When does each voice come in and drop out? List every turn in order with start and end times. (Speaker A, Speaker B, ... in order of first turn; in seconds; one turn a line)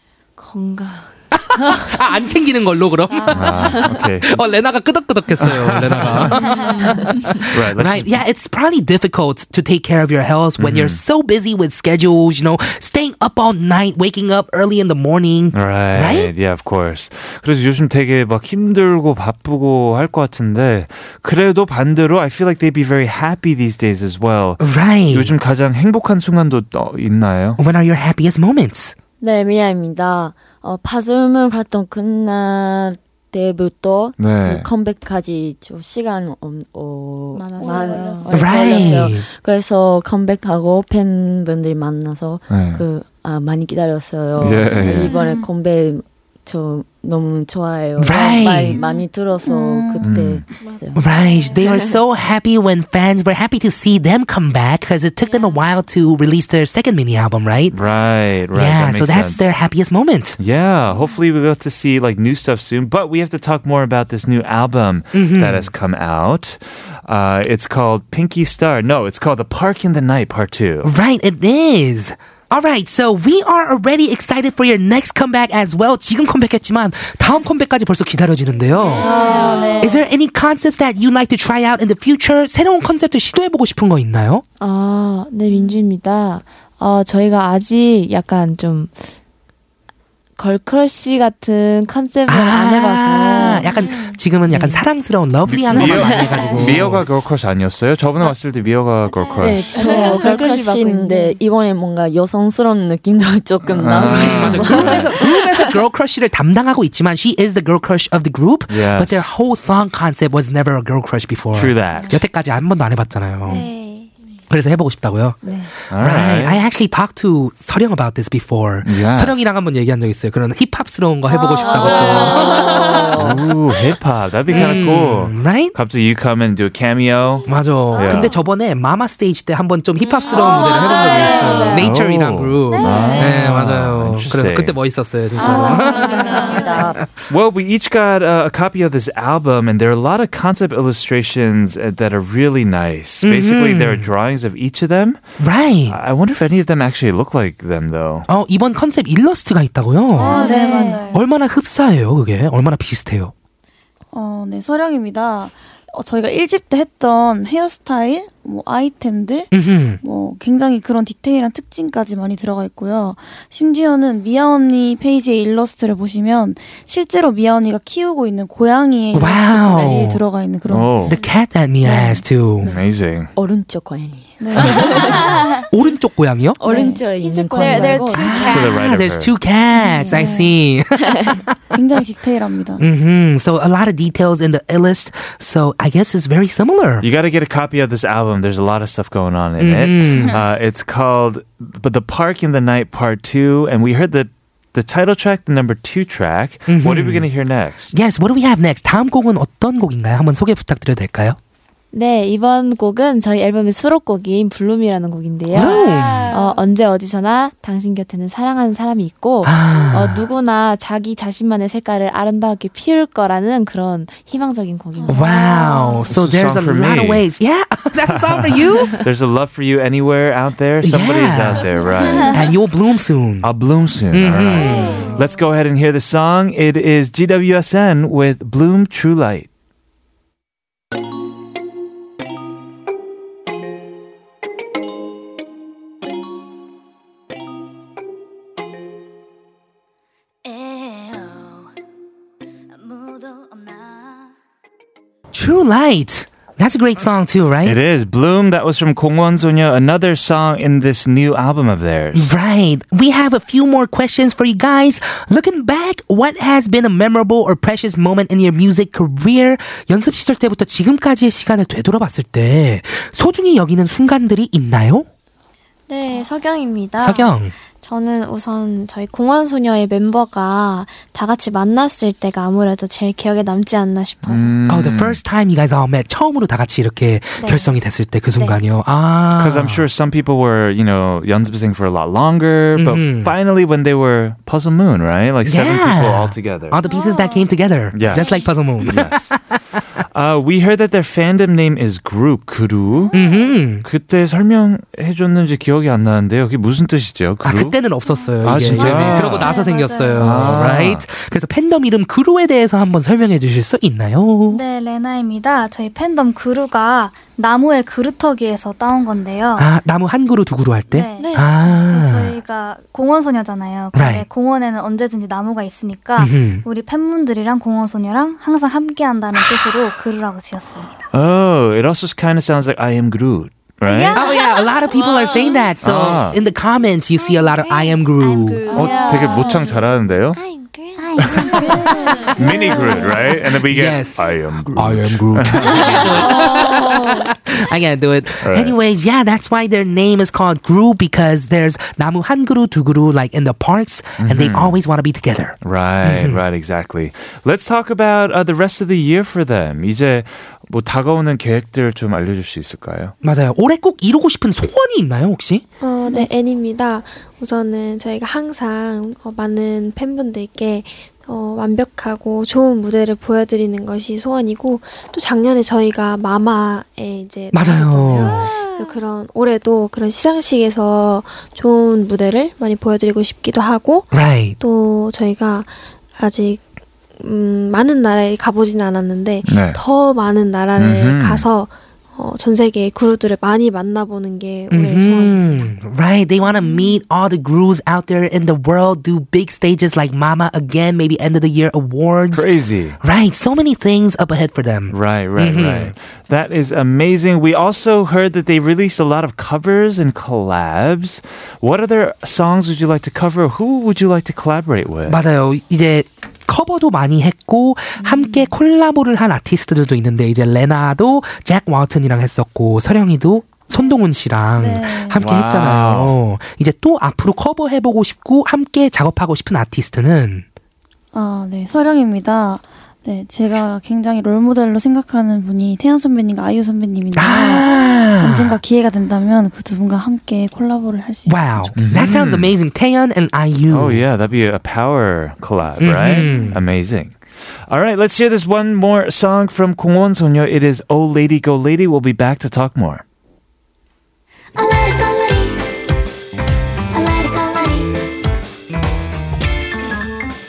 Speaker A: 0.4-1.9
Speaker B: 1.4-16.3
Speaker A: 3.2-3.6
Speaker C: 3.3-4.4
Speaker C: 5.4-8.2
Speaker C: 10.6-11.0
Speaker C: 15.5-27.6
Speaker B: 24.6-25.3
Speaker B: 27.6-28.9
Speaker D: 29.2-51.1
Speaker C: 34.2-34.7
Speaker A: 37.3-38.9
Speaker E: 37.6-38.9
Speaker B: 38.3-39.3
Speaker C: 42.5-42.8
Speaker C: 44.4-45.1
Speaker F: 45.1-45.4
Speaker B: 48.0-48.8
Speaker E: 49.4-50.1
Speaker C: 50.0-50.4
Speaker B: 50.9-57.8
Speaker G: 51.2-51.6
Speaker C: 57.7-59.5
Speaker B: 58.5-60.4
Speaker C: 60.4-70.9
Speaker B: 65.1-65.7
Speaker B: 70.8-84.4
Speaker A: 78.9-80.0
Speaker A: 84.6-89.0
Speaker A: 90.4-93.9
Speaker B: 92.3-97.1
Speaker E: 93.4-94.2
Speaker A: 94.5-94.8
Speaker C: 95.5-99.7
Speaker D: 96.1-96.4
Speaker H: 99.1-99.6
Speaker A: 99.4-101.4
Speaker D: 99.4-105.7
Speaker C: 103.6-105.1
Speaker B: 103.9-113.6
Speaker C: 108.7-109.3
Speaker C: 111.5-112.2
Speaker H: 113.4-114.1
Speaker B: 114.5-123.2
Speaker A: 115.4-115.7
Speaker C: 115.9-116.6
Speaker C: 118.8-119.4
Speaker A: 121.5-123.1
Speaker D: 122.9-123.4
Speaker C: 123.2-128.3
Speaker B: 124.5-125.8
Speaker B: 127.5-136.2
Speaker A: 130.3-131.7
Speaker D: 131.4-131.9
Speaker C: 131.7-134.8
Speaker D: 135.4-137.0
Speaker A: 135.4-136.8
Speaker H: 135.5-136.6
Speaker F: 136.1-136.6
Speaker C: 137.3-145.2
Speaker B: 143.2-144.1
Speaker B: 145.4-146.0
Speaker C: 145.9-148.2
Speaker B: 148.3-150.6
Speaker F: 150.1-151.2
Speaker E: 150.2-151.0
Speaker H: 150.2-151.0
Speaker B: 151.1-153.3
Speaker E: 154.1-171.1
Speaker B: 159.5-160.0
Speaker B: 169.1-170.2
Speaker C: 170.7-171.2
Speaker B: 171.0-172.7
Speaker E: 171.9-172.2
Speaker C: 172.6-173.3
Speaker D: 173.3-175.5
Speaker E: 174.4-175.3
Speaker B: 175.7-176.6
Speaker D: 176.6-178.6
Speaker E: 176.6-177.0
Speaker A: 177.2-178.1
Speaker B: 178.1-181.5
Speaker G: 178.3-178.6
Speaker C: 178.4-179.3
Speaker E: 180.1-180.6
Speaker D: 181.0-181.4
Speaker E: 181.7-182.8
Speaker B: 182.8-187.1
Speaker C: 187.0-197.9
Speaker B: 189.6-190.4
Speaker B: 196.7-197.3
Speaker B: 197.9-201.4
Speaker A: 201.9-215.3
Speaker B: 205.5-206.3
Speaker G: 205.6-206.6
Speaker B: 209.4-210.3
Speaker B: 215.1-219.0
Speaker C: 216.1-217.2
Speaker C: 218.1-222.5
Speaker B: 220.8-221.7
Speaker B: 222.2-223.5
Speaker C: 223.4-229.5
Speaker B: 224.1-225.1
Speaker H: 224.7-225.2
Speaker B: 245.3-247.8
Speaker C: 247.6-252.3
Speaker B: 252.1-265.1
Speaker H: 265.9-274.5
Speaker B: 267.0-267.5
Speaker C: 274.2-275.2
Speaker B: 274.7-279.8
Speaker H: 277.4-277.7
Speaker H: 278.3-278.6
Speaker C: 279.4-286.8
Speaker B: 282.7-283.3
Speaker B: 285.4-289.5
Speaker H: 286.9-287.4
Speaker C: 287.9-289.3
Speaker C: 290.1-293.1
Speaker B: 293.1-293.9
Speaker C: 293.8-297.8
Speaker B: 297.4-304.6
Speaker C: 298.4-299.5
Speaker F: 298.8-300.5
Speaker C: 300.2-301.0
Speaker F: 304.5-309.7
Speaker B: 309.6-312.4
Speaker F: 310.9-321.1
Speaker H: 311.2-311.7
Speaker B: 313.9-314.2
Speaker B: 316.2-316.6
Speaker C: 321.1-324.3
Speaker B: 324.1-328.7
Speaker H: 324.2-324.6
Speaker C: 325.8-326.4
Speaker H: 327.2-328.0
Speaker H: 328.5-329.8
Speaker F: 328.7-329.2
Speaker C: 328.7-330.4
Speaker H: 330.3-333.1
Speaker F: 331.0-332.1
Speaker E: 331.2-333.0
Speaker C: 331.2-331.5
Speaker C: 332.3-336.3
Speaker B: 333.4-346.4
Speaker C: 338.4-338.8
Speaker C: 344.2-344.8
Speaker C: 345.6-353.1
Speaker B: 353.2-355.6
Speaker G: 355.8-376.6
Speaker B: 367.5-368.5
Speaker H: 368.6-368.9
Speaker B: 374.1-374.6
Speaker G: 377.2-385.7
Speaker C: 379.4-379.8
Speaker C: 380.8-381.5
Speaker B: 384.7-392.5
Speaker C: 392.3-393.0
Speaker B: 393.0-395.9
Speaker C: 394.9-405.2
Speaker B: 405.1-420.4
Speaker E: 414.6-415.2
Speaker C: 415.2-416.1
Speaker E: 421.1-431.8
Speaker B: 427.1-428.6
Speaker B: 431.2-434.0
Speaker C: 431.8-432.5
Speaker C: 433.7-437.2
Speaker B: 435.8-436.6
Speaker E: 436.1-436.5
Speaker C: 437.7-443.0
Speaker H: 444.6-445.6
Speaker H: 446.9-447.9